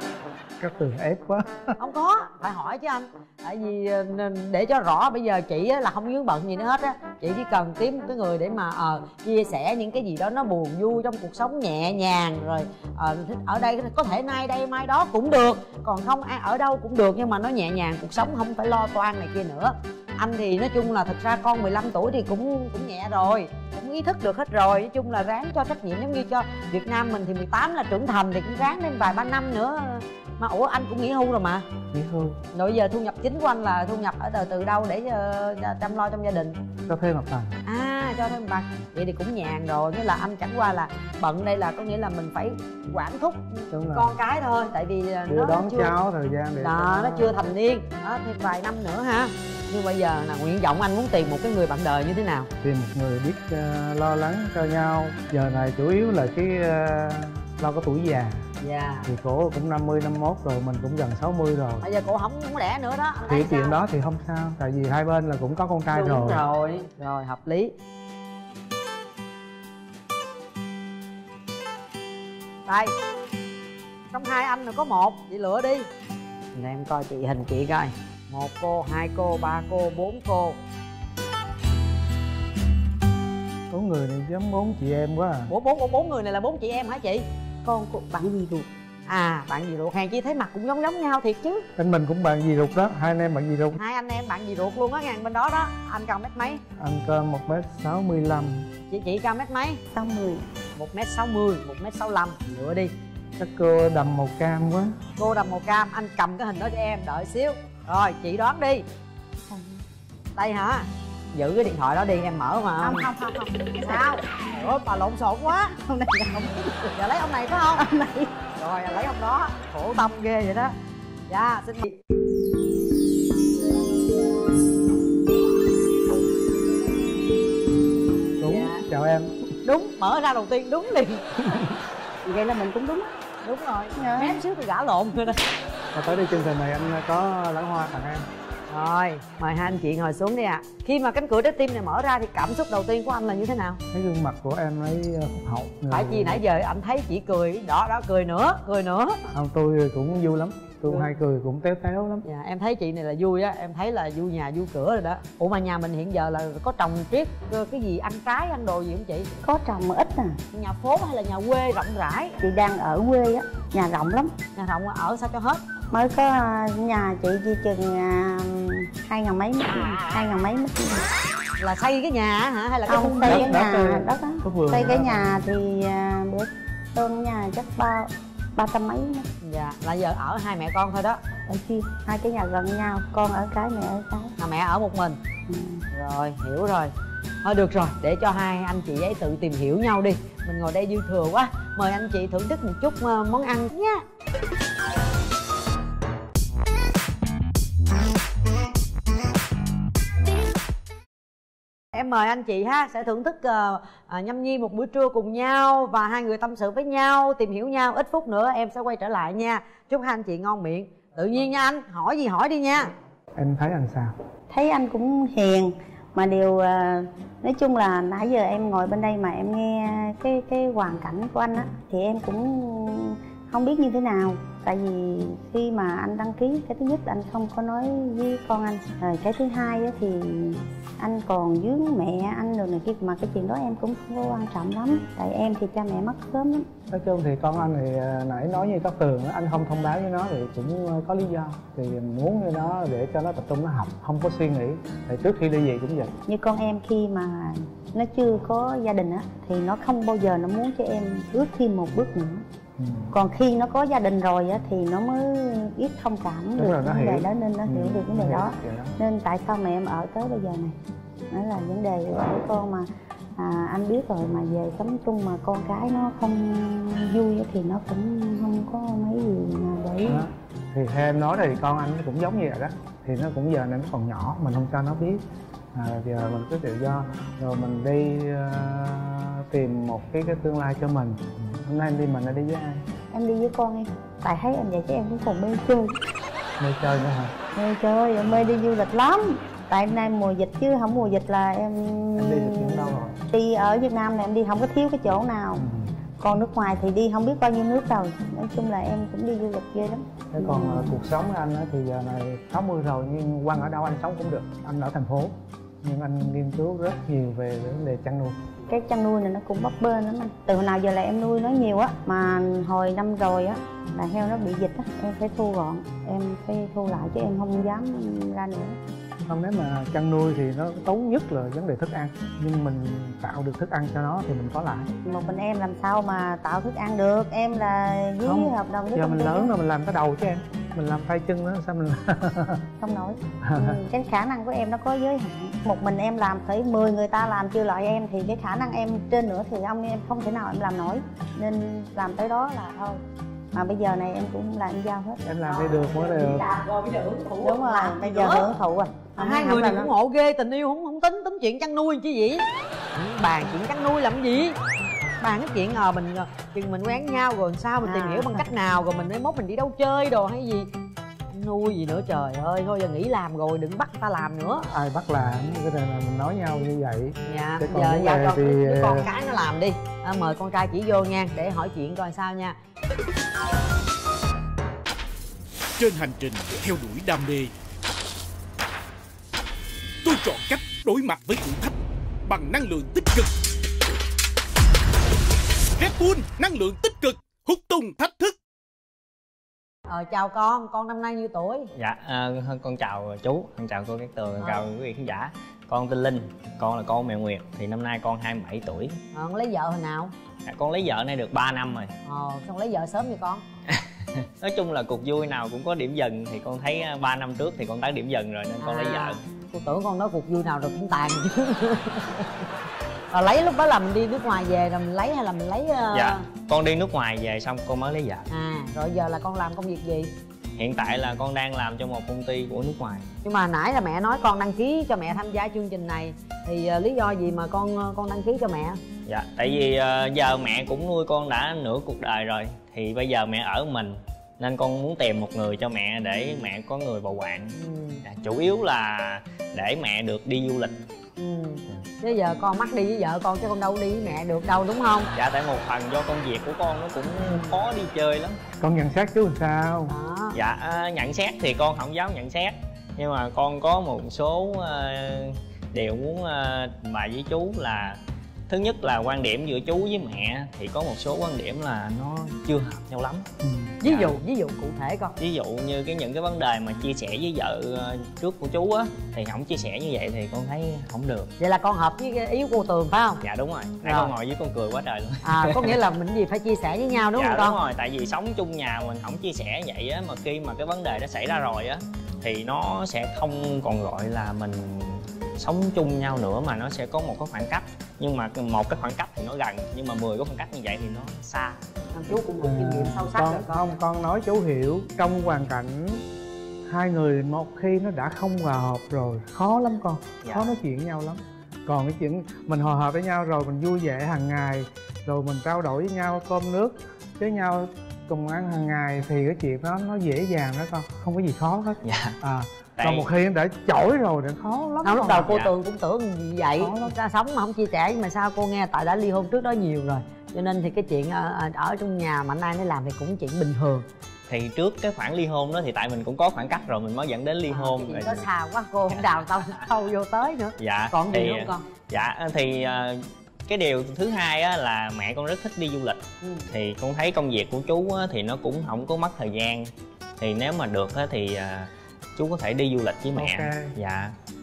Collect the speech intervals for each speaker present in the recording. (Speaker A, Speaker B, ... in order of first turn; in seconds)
Speaker A: 0.6-1.8, 31.9-32.4, 36.9-37.6, 43.7-44.1, 45.3-47.3, 52.6-58.5, 59.1-61.9, 63.3-66.4, 83.7-85.5, 91.8-93.8, 96.8-98.7, 103.4-105.0, 128.4-129.5, 135.9-138.3, 143.9-146.4, 149.3-152.2, 173.2-175.5, 213.4-214.1, 236.9-246.1, 252.8-253.1, 256.6-259.0, 270.1-275.2, 275.7-282.8, 286.6-287.4, 292.2-293.2, 295.6-295.9, 300.3-308.4, 319.2-324.9, 328.2-332.6, 333.4-333.8, 345.2-346.5, 364.7-369.1, 448.6-449.9, 463.4-463.8, 492.4-496.0, 496.7-515.4, 516.6-517.0, 543.2-543.8
Speaker B: 1.8-31.7, 32.5-36.6, 37.7-45.9, 46.6-52.5, 58.6-59.1, 61.8-63.8, 65.9-67.7, 72.7-72.9, 74.1-75.9, 76.5-80.6, 85.5-87.2, 89.1-91.7, 93.8-96.6, 98.9-99.8, 100.8-102.9, 105.2-108.8, 110.4-113.1, 113.9-115.8, 117.0-117.9, 118.6-120.7, 121.3-122.0, 128.5-128.8, 129.6-131.6, 133.4-135.4, 138.7-143.8, 145.9-149.2, 152.2-159.3, 160.5-162.4, 164.5-165.6, 171.6-173.6, 179.4-181.2, 184.4-185.2, 185.9-186.9, 187.4-194.0, 201.9-212.9, 345.4-348.5, 349.2-352.4, 352.9-354.6, 355.2-360.7, 361.3-364.7, 367.2-372.6, 389.9-391.7, 394.4-394.6, 399.1-400.1, 402.1-403.4, 408.6-412.5, 413.1-416.2, 418.3-420.1, 423.2-428.8, 437.6-438.0, 441.2-445.1, 449.9-450.4, 463.8-465.1, 471.4-473.2, 473.9-474.1, 475.2-477.6, 491.9-493.7, 514.8-523.9, 527.5-531.7, 536.2-536.5
Speaker C: 87.7-88.7, 99.9-100.5, 109.5-109.8, 112.8-114.2, 115.7-117.0, 117.8-118.4, 132.2-133.2, 134.0-134.4, 159.4-160.4, 162.4-164.3, 165.9-171.1, 172.9-179.3, 181.5-184.3, 185.5-185.8, 214.5-236.7, 246.3-252.4, 253.1-260.8, 261.3-270.3, 283.1-286.0, 287.5-295.6, 296.2-301.0, 308.7-318.8, 325.0-329.5, 332.8-343.0, 343.5-345.2, 347.4-349.9, 357.8-358.5
Speaker D: 375.8-377.5, 380.0-381.8, 382.3-383.3, 385.8-388.4
Speaker E: 391.8-399.0, 400.5-401.9, 403.7-409.2, 415.9-418.3, 420.6-423.1, 429.1-440.7, 445.1-448.4, 450.3-463.2, 463.8-464.1, 465.2-471.3, 473.2-475.8, 477.1-491.6, 511.8-512.2, 512.8-513.1, 515.3-515.5, 524.3-528.3, 528.9-529.7, 530.6-544.1